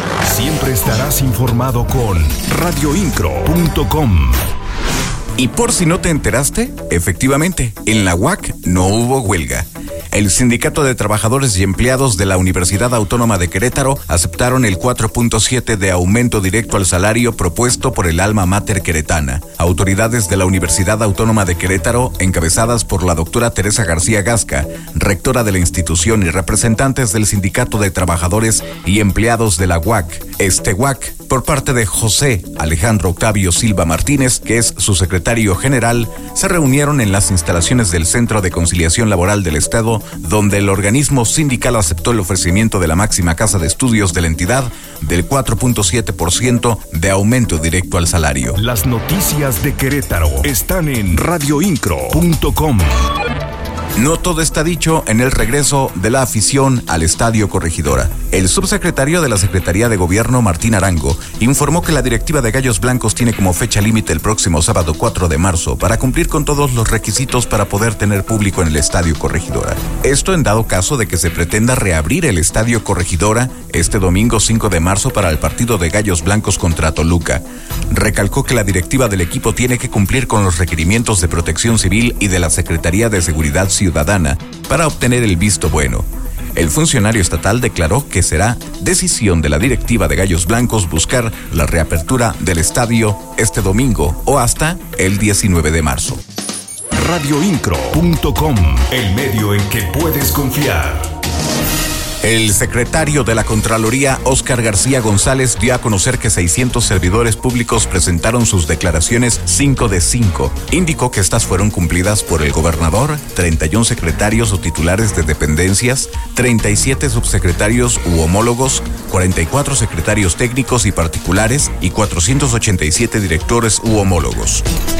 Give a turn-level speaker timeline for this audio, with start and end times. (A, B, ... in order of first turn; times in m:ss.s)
0:00.2-0:04.4 A
0:05.4-0:48.6 B
0:48.6-0:53.0 A
0:54.0-1:36.2 B
1:36.9-1:41.1 A
1:42.2-2:04.6 B